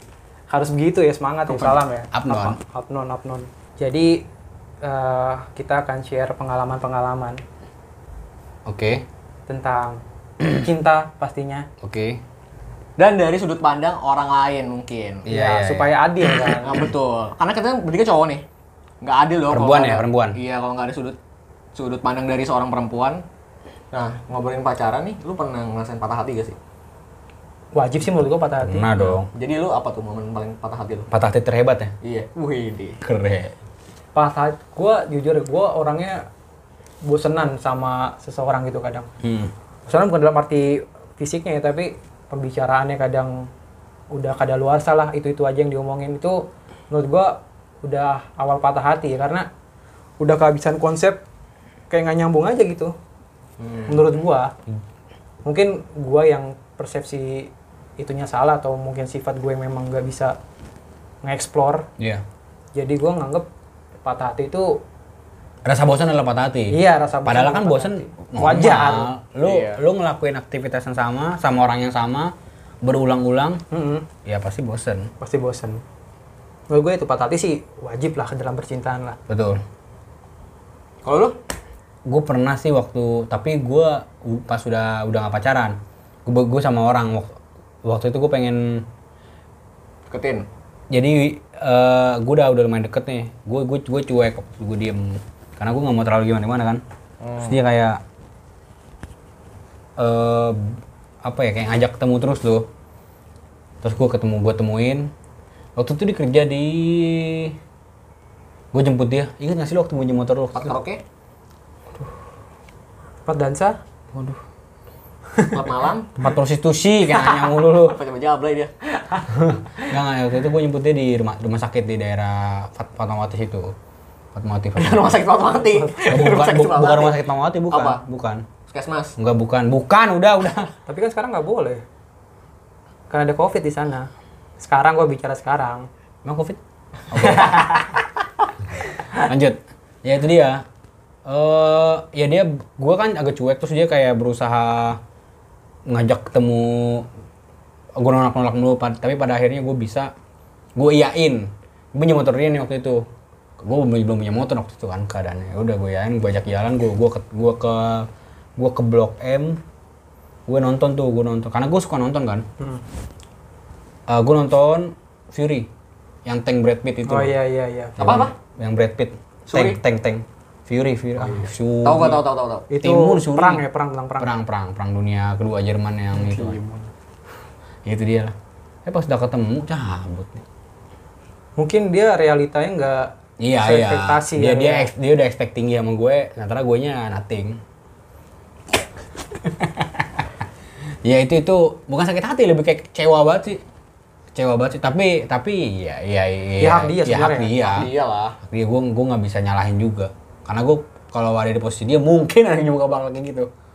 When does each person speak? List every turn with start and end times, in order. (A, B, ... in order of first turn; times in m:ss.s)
0:00.5-0:04.2 A
0:01.6-0:02.6 B
0:04.8-0:07.4 A
0:08.6-0:09.0 B
0:09.5-0:11.7 A
0:11.8-0:12.2 B
0:13.0-0:15.2 C
0:15.2-0:16.5 B
0:15.3-0:16.8 A
0:16.6-0:18.4 C
0:19.0-0:21.2 C
0:19.5-0:20.4 B
0:21.7-0:23.2 C
0:23.9-0:26.6 C
0:27.7-0:29.1 A
0:28.6-0:29.3 B
0:29.3-0:31.1 C
0:31.1-0:31.9 B
0:32.0-0:33.0 C
0:33.0-0:33.5 B
0:34.1-0:36.2 A
0:37.0-0:39.1 A
0:39.2-0:39.5 B
0:39.8-0:43.5 A
0:44.1-0:49.5 A
0:50.2-0:51.2 A
0:51.9-0:52.9 A
0:53.6-0:54.0 C
0:53.9-0:54.5 A
0:55.4-1:00.4 A
1:01.2-1:01.9 A
1:02.7-1:03.5 A
1:04.0-1:04.8 A
1:05.6-1:13.6 B
1:06.7-1:09.1 A
1:09.4-1:09.8 C
1:13.7-1:14.0 A
1:14.2-1:15.1 B
1:15.2-1:15.8 A
1:16.7-1:19.2 A
1:19.3-1:19.6 B
1:21.0-1:21.4 C
1:22.0-1:28.8 B
1:30.0-1:30.5 C
1:30.9-1:36.8 B
1:37.2-1:37.6 C
1:37.4-1:38.0 B
1:40.0-1:42.7 B
1:43.8-1:45.1 B
1:45.8-1:47.6 B
1:48.7-1:50.7 B
1:50.5-1:51.0 C
1:53.2-1:53.8 A
1:54.1-1:54.4 B
1:55.5-1:56.1 C
1:56.2-1:58.0 B
1:57.7-1:58.7 C
1:59.3-2:03.7 B
2:04.3-2:05.2 B
2:04.8-2:07.2 C
2:05.6-2:06.0 A
2:06.0-2:08.4 B
2:07.7-2:08.0 C
2:08.7-2:09.1 C
2:09.2-2:10.7 B
2:10.9-2:11.8 A
2:13.1-2:16.6 A
2:17.1-2:17.8 B
2:17.1-2:17.9 A
2:19.2-2:20.6 B
2:21.2-2:25.0 B
2:25.9-2:27.1 B
2:28.0-2:30.1 B
2:30.8-2:33.0 B
2:33.6-2:39.6 B
2:40.5-2:42.4 B
2:44.1-2:45.7 B
2:46.2-2:47.3 B
2:47.1-2:48.0 A
2:48.0-2:52.2 B
2:48.0-2:48.3 C
2:49.5-2:49.8 C
2:51.2-2:52.7 C
2:52.7-2:54.4 A
2:52.8-2:53.6 B
2:54.2-2:56.6 B
2:56.1-2:56.9 C
2:57.8-3:00.4 B
3:01.6-3:04.9 A
3:03.4-3:07.6 B
3:09.4-3:10.2 B
3:11.0-3:13.6 B
3:14.3-3:17.9 B
3:16.6-3:17.5 A
3:17.6-3:18.4 C
3:18.4-3:23.5 B